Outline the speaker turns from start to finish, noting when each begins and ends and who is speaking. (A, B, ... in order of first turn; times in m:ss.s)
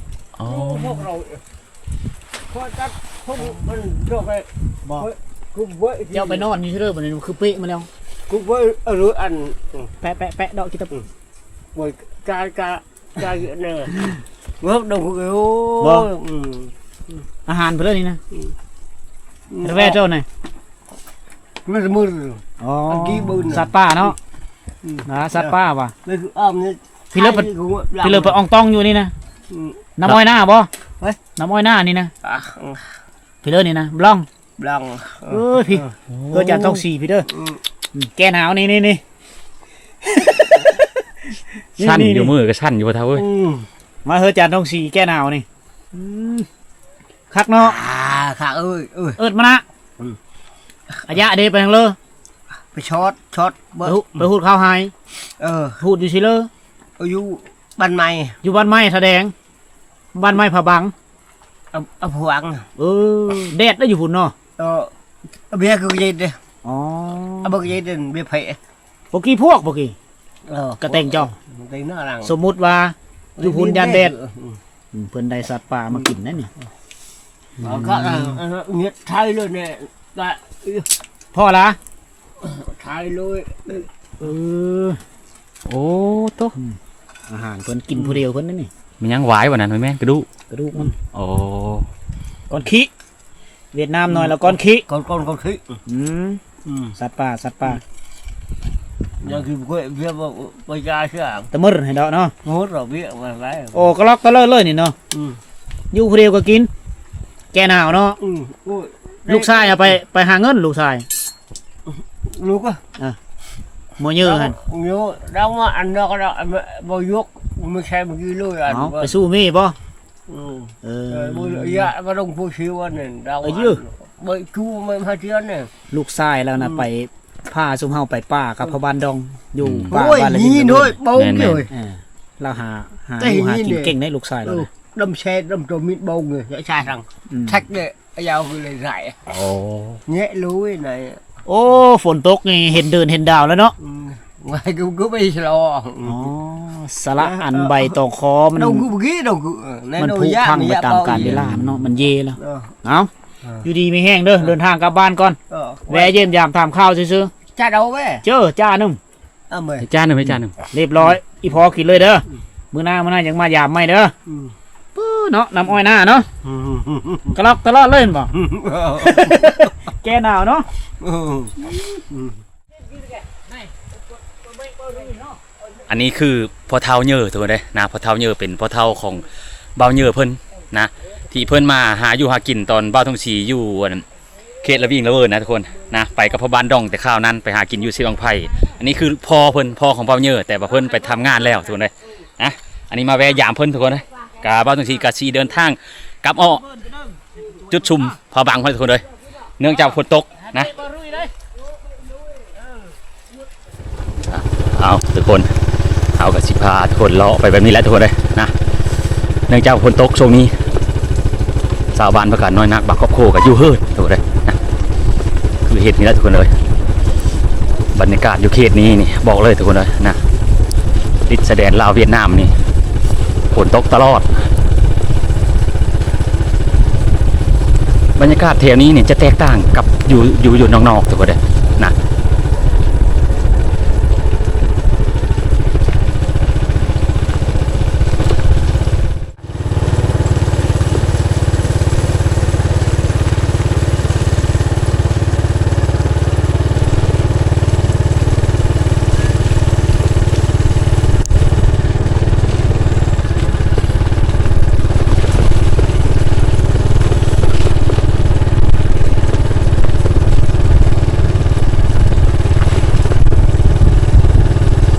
0:00.4-0:01.1 A
0:00.4-0:01.4 B
0:02.5-0:06.5 B
0:06.1-0:07.9 C
0:08.3-0:09.9 B
0:10.0-0:11.1 C
0:11.8-0:14.1 B
0:14.6-0:17.2 B
0:15.8-0:16.1 C
0:17.5-0:18.2 C
0:19.5-0:20.0 B
0:19.6-0:20.2 C
0:21.6-0:23.7 B
0:22.6-0:24.2 C
0:24.8-0:28.4 B
0:25.1-0:25.9 C
0:27.1-0:27.5 C
0:28.0-0:29.1 C
0:29.5-0:29.8 B
0:30.0-0:30.7 C
0:31.4-0:32.1 C
0:32.2-0:33.0 B
0:33.4-0:34.3 C
0:34.6-0:35.9 B
0:35.3-0:37.3 C
0:36.1-0:36.8 A
0:37.3-0:37.6 B
0:37.9-0:39.0 C
0:40.0-0:42.3 C
0:41.8-0:43.3 A
0:43.2-0:43.7 B
0:44.0-0:46.5 C
0:47.3-0:47.8 C
0:47.6-0:49.2 B
0:49.2-0:49.6 C
0:51.0-0:52.0 C
0:52.7-0:54.2 B
0:53.8-0:54.9 C
0:55.4-0:55.8 B
0:55.8-0:56.5 C
0:57.0-0:58.4 B
0:58.4-0:59.3 C
1:00.1-1:00.9 C
1:01.7-1:02.7 B
1:02.8-1:04.3 C
1:04.6-1:04.9 B
1:05.5-1:06.4 B
1:06.6-1:07.6 C
1:07.4-1:08.6 B
1:09.1-1:10.0 C
1:10.5-1:12.4 B
1:10.8-1:11.3 C
1:12.2-1:14.1 C
1:13.4-1:14.6 B
1:14.9-1:16.5 C
1:17.6-1:20.9 B
1:17.6-1:18.2 A
1:21.3-1:21.8 C
1:22.4-1:23.9 B
1:24.2-1:25.0 C
1:25.7-1:26.6 A
1:27.3-1:28.7 C
1:29.0-1:30.3 A
1:30.5-1:30.9 C
1:31.1-1:31.9 A
1:32.5-1:32.9 C
1:33.7-1:34.8 C
1:34.1-1:35.8 B
1:35.9-1:36.4 C
1:36.6-1:36.9 B
1:36.9-1:37.8 C
1:39.2-1:41.5 B
1:41.5-1:42.3 C
1:42.4-1:43.9 B
1:43.7-1:44.9 C
1:45.1-1:45.4 B
1:45.9-1:46.7 C
1:47.5-1:48.2 C
1:48.2-1:50.0 B
1:49.3-1:51.1 C
1:52.2-1:52.8 B
1:54.0-1:54.5 C
1:54.2-1:59.2 B
1:58.7-1:59.8 C
2:00.3-2:05.7 B
2:00.8-2:01.9 C
2:03.4-2:03.8 C
2:05.9-2:11.0 C
2:06.6-2:06.9 B
2:09.6-2:09.9 A
2:09.9-2:11.7 B
2:11.1-2:11.6 A
2:11.7-2:14.7 C
2:13.2-2:19.3 B
2:17.3-2:17.6 C
2:19.3-2:19.9 A
2:20.1-2:21.2 B
2:21.4-2:23.8 C
2:23.8-2:26.2 B
2:26.0-2:28.9 C
2:27.1-2:28.0 B
2:28.6-2:31.4 B
2:30.0-2:33.1 C
2:31.1-2:31.9 A
2:32.4-2:32.7 B
2:33.6-2:37.3 C
2:35.5-2:36.2 B
2:37.5-2:38.2 B
2:38.2-2:39.0 C
2:39.5-2:39.9 B
2:39.8-2:40.6 A
2:40.7-2:44.1 C
2:44.3-2:44.5 B
2:44.9-2:46.3 C
2:46.4-2:47.4 B
2:47.3-2:48.3 C
2:48.4-2:49.7 B
2:49.0-2:50.7 C
2:51.0-2:52.4 B
2:52.9-2:55.4 C
2:55.9-3:04.1 A
3:04.6-3:16.6 A
3:10.7-3:11.8 C
3:16.4-3:18.2 C
3:17.7-3:20.7 A
3:19.7-3:21.3 C
3:22.3-3:22.7 B
3:24.2-3:25.5 A
3:26.1-3:28.5 A
3:29.5-3:30.6 A
3:31.9-3:34.6 A
3:35.6-3:36.5 A
3:37.9-3:40.2 A
3:41.3-3:42.6 A
3:43.5-3:44.5 A
3:48.2-3:51.9 A